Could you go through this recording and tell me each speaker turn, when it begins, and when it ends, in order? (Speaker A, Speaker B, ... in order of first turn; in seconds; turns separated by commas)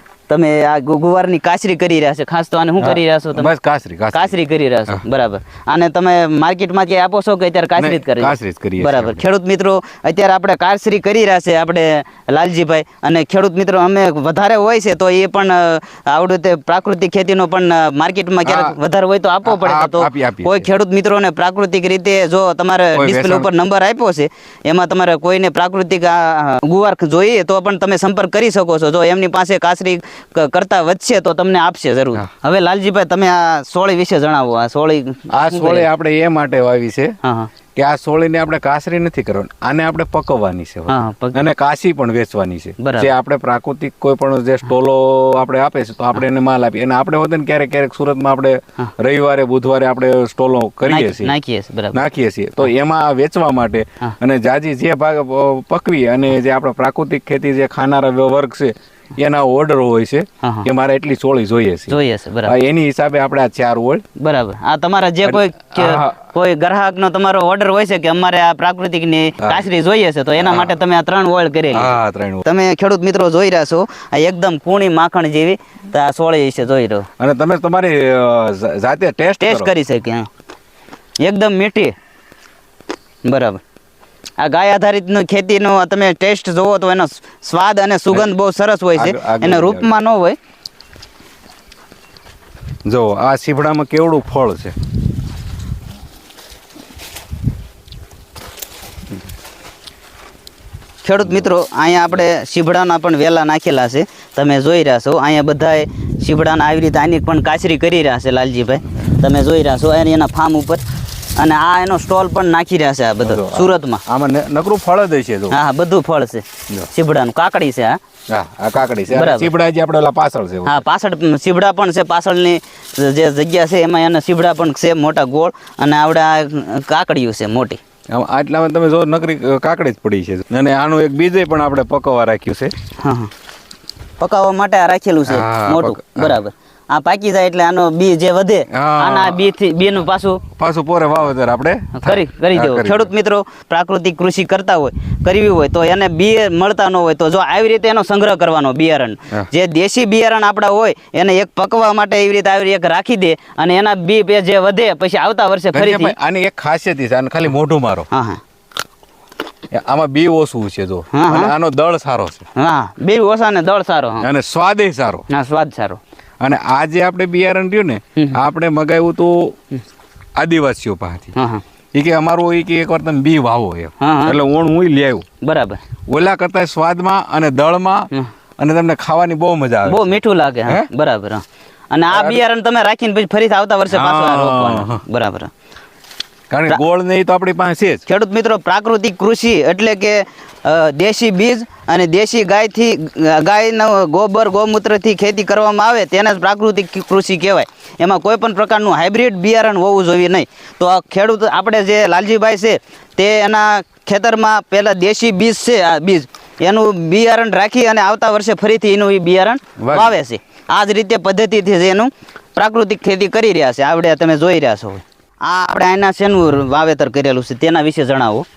Speaker A: 0.3-3.5, Speaker B: 2.8-4.3, Speaker A: 4.1-35.9, Speaker B: 7.8-9.2, Speaker B: 18.4-18.8, Speaker B: 19.4-20.7, Speaker B: 22.9-23.5, Speaker B: 35.3-37.1, Speaker A: 37.2-37.5, Speaker B: 37.8-51.3, Speaker A: 40.9-41.4, Speaker A: 42.8-43.1, Speaker A: 50.9-52.0, Speaker B: 51.9-64.0, Speaker A: 60.4-60.7, Speaker A: 61.9-62.5, Speaker A: 64.2-77.1, Speaker B: 65.2-66.1, Speaker B: 70.4-70.7, Speaker B: 71.7-72.4, Speaker B: 77.2-79.7, Speaker A: 79.4-80.3, Speaker A: 81.2-81.9, Speaker A: 83.2-83.6, Speaker A: 84.4-90.3, Speaker B: 88.9-89.9, Speaker B: 92.8-94.7, Speaker A: 101.0-110.8, Speaker A: 111.3-114.0, Speaker B: 113.2-115.6, Speaker A: 115.5-118.0, Speaker B: 118.3-120.7, Speaker A: 119.1-119.5, Speaker A: 120.6-127.8, Speaker B: 128.1-132.7, Speaker A: 133.0-133.3, Speaker A: 134.2-140.4, Speaker B: 135.3-136.4, Speaker B: 138.7-139.5, Speaker B: 140.5-143.1, Speaker A: 141.9-156.1, Speaker B: 155.7-158.1, Speaker A: 158.1-158.4, Speaker B: 159.7-162.4, Speaker A: 161.1-161.5, Speaker A: 162.6-164.2, Speaker B: 164.2-165.2, Speaker A: 165.3-166.0, Speaker B: 166.4-169.5, Speaker B: 170.4-171.3, Speaker A: 171.3-171.6, Speaker B: 171.9-175.2, Speaker A: 174.0-174.4, Speaker A: 175.4-175.8, Speaker B: 176.1-180.1, Speaker A: 179.8-185.5, Speaker B: 182.1-182.4, Speaker B: 183.9-185.0, Speaker B: 186.5-188.0, Speaker A: 188.1-218.4, Speaker B: 209.8-210.2